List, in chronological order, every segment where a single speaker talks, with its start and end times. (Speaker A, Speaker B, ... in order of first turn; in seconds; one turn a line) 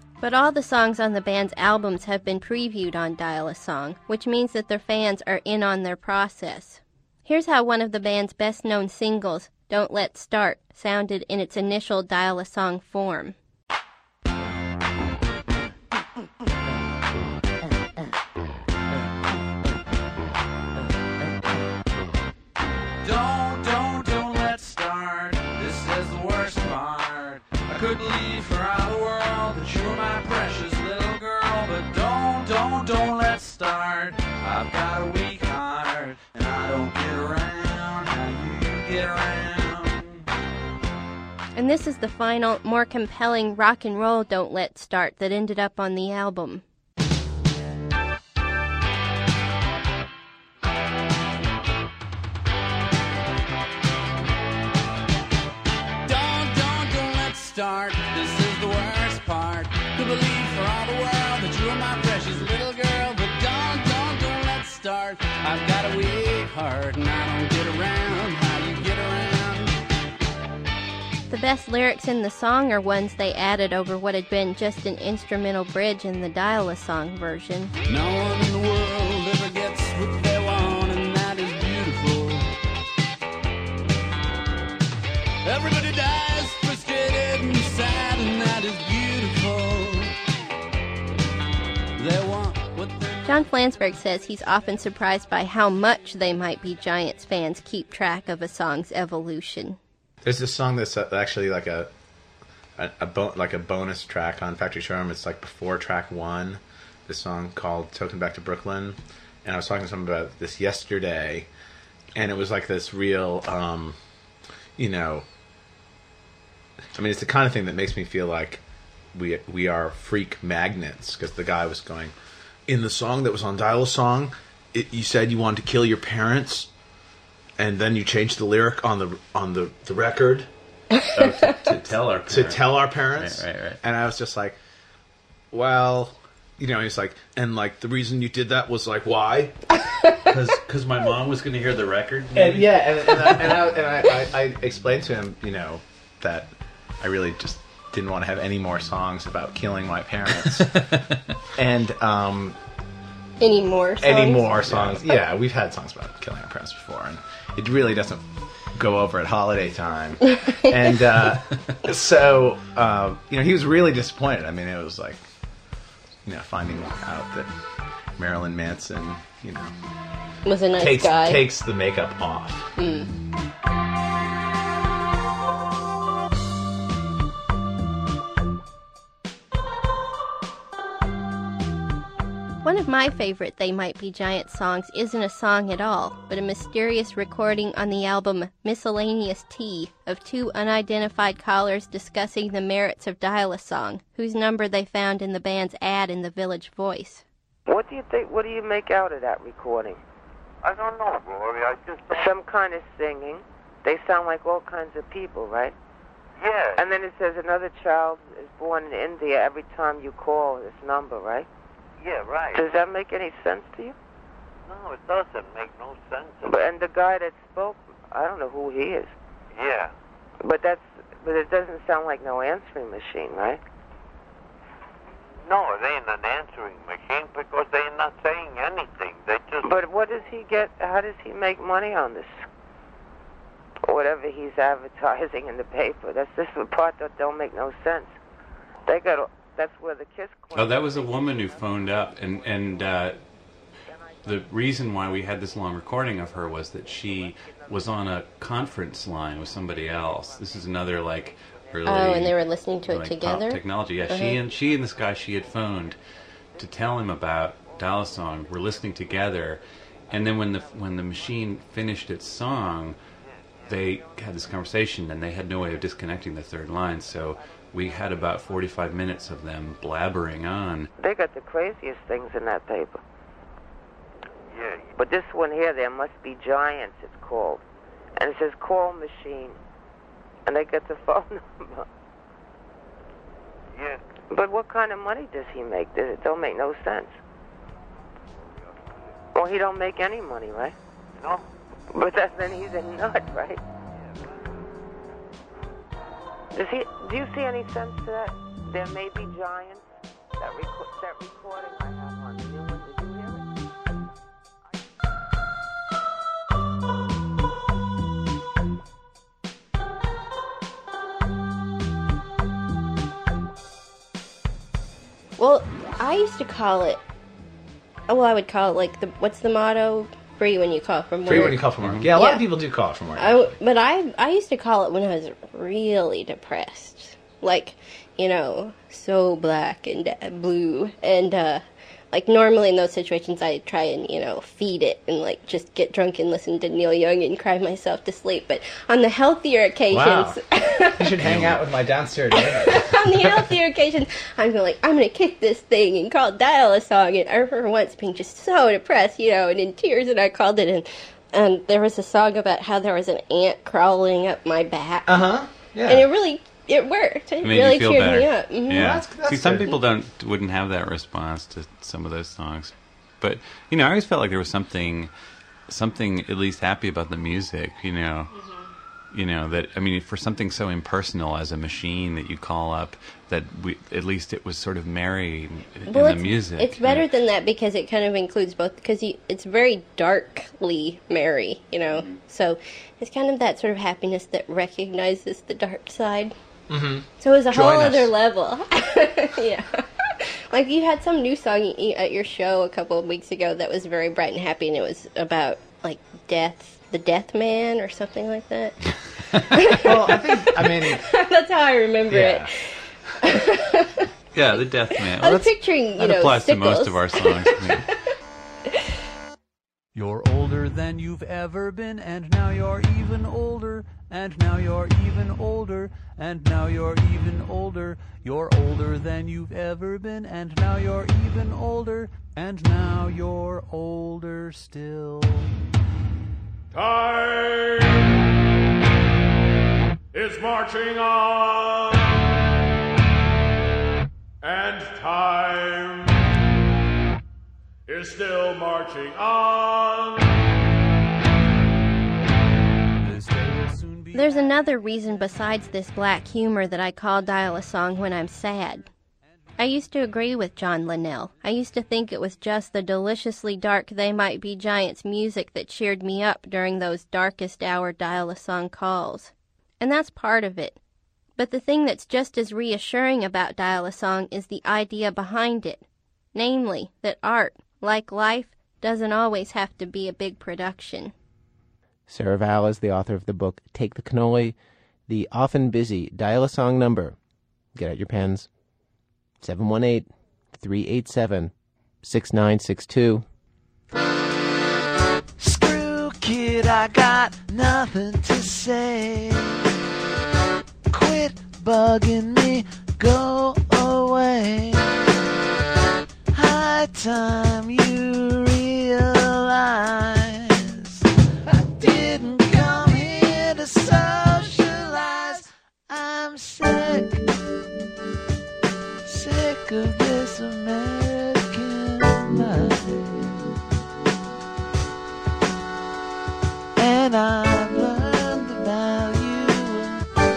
Speaker A: 0.2-13.3
Speaker B: 23.0-40.0
Speaker A: 41.5-46.6
Speaker B: 56.0-69.7
Speaker A: 71.3-77.7
Speaker B: 77.9-82.5
Speaker B: 85.4-90.1
Speaker B: 92.0-93.3
Speaker A: 93.2-99.8
Speaker C: 100.2-101.9
Speaker C: 102.8-111.5
Speaker C: 112.1-114.0
Speaker C: 114.8-115.2
Speaker C: 117.0-118.6
Speaker C: 119.1-122.1
Speaker C: 122.7-126.7
Speaker C: 127.6-130.5
Speaker D: 131.1-133.8
Speaker C: 131.8-134.6
Speaker C: 135.5-139.6
Speaker D: 140.3-143.7
Speaker C: 142.3-150.7
Speaker D: 150.3-151.2
Speaker C: 151.6-152.6
Speaker A: 153.4-154.8
Speaker C: 154.0-165.2
Speaker C: 166.2-167.5
Speaker C: 168.2-169.7
Speaker A: 170.4-171.4
Speaker C: 170.7-172.7
Speaker A: 172.8-173.1
Speaker A: 182.6-197.2
Speaker E: 197.7-200.0
Speaker F: 200.6-202.3
Speaker E: 202.1-205.7
Speaker F: 206.4-206.9
Speaker E: 206.8-211.5
Speaker F: 212.0-212.7
Speaker E: 212.5-213.9
Speaker F: 214.7-216.6
Speaker E: 216.4-219.1
Speaker F: 219.5-219.9
Speaker E: 220.4-223.6
Speaker F: 225.4-229.7
Speaker E: 229.6-232.4
Speaker E: 233.8-238.2
Speaker E: 238.9-241.6
Speaker D: 240.5-243.2
Speaker D: 244.2-255.9
Speaker A: 251.9-253.6
Speaker A: 254.1-254.4
Speaker D: 256.6-263.0
Speaker D: 263.6-270.9
Speaker E: 271.0-273.0
Speaker F: 274.5-274.9
Speaker E: 274.9-277.6
Speaker E: 278.2-279.6
Speaker E: 280.4-281.9
Speaker F: 283.7-284.0
Speaker E: 284.3-287.2
Speaker F: 288.7-289.1
Speaker E: 289.3-290.8
Speaker F: 291.2-291.4
Speaker E: 291.9-293.6
Speaker F: 293.9-294.3
Speaker E: 296.5-303.4
Speaker A: 315.4-317.0
Speaker A: 318.1-322.4
Speaker C: 321.2-323.6
Speaker D: 321.8-322.1
Speaker A: 323.1-341.2
Speaker C: 339.9-340.4
Speaker C: 340.9-343.5
Speaker D: 341.2-341.6
Speaker A: 342.4-355.2
Speaker C: 355.1-356.1
Speaker A: 355.9-358.8
Speaker D: 357.4-365.1
Speaker C: 358.7-359.8
Speaker D: 365.7-368.3
Speaker D: 369.1-377.1
Speaker A: 375.9-386.3
Speaker C: 386.7-388.1
Speaker A: 387.2-389.6
Speaker A: 390.5-398.7
Speaker A: 399.6-402.6
Speaker C: 399.7-401.1
Speaker C: 402.1-402.5
Speaker A: 403.3-403.9
Speaker D: 404.3-407.9
Speaker A: 405.1-407.4
Speaker B: 409.9-425.5
Speaker G: 430.2-431.1
Speaker G: 434.5-434.9
Speaker G: 437.9-439.7
Speaker B: 443.0-444.7
Speaker A: 444.1-448.8
Speaker A: 449.6-460.8
Speaker A: 461.4-465.8
Speaker A: 466.3-471.1
Speaker H: 472.1-474.5
Speaker H: 475.1-477.1
Speaker H: 477.7-478.5
Speaker H: 479.4-481.5
Speaker H: 482.0-483.2
Speaker I: 485.4-489.6
Speaker I: 490.9-495.1
Speaker I: 496.3-507.2
Speaker I: 509.0-513.4
Speaker I: 516.8-520.0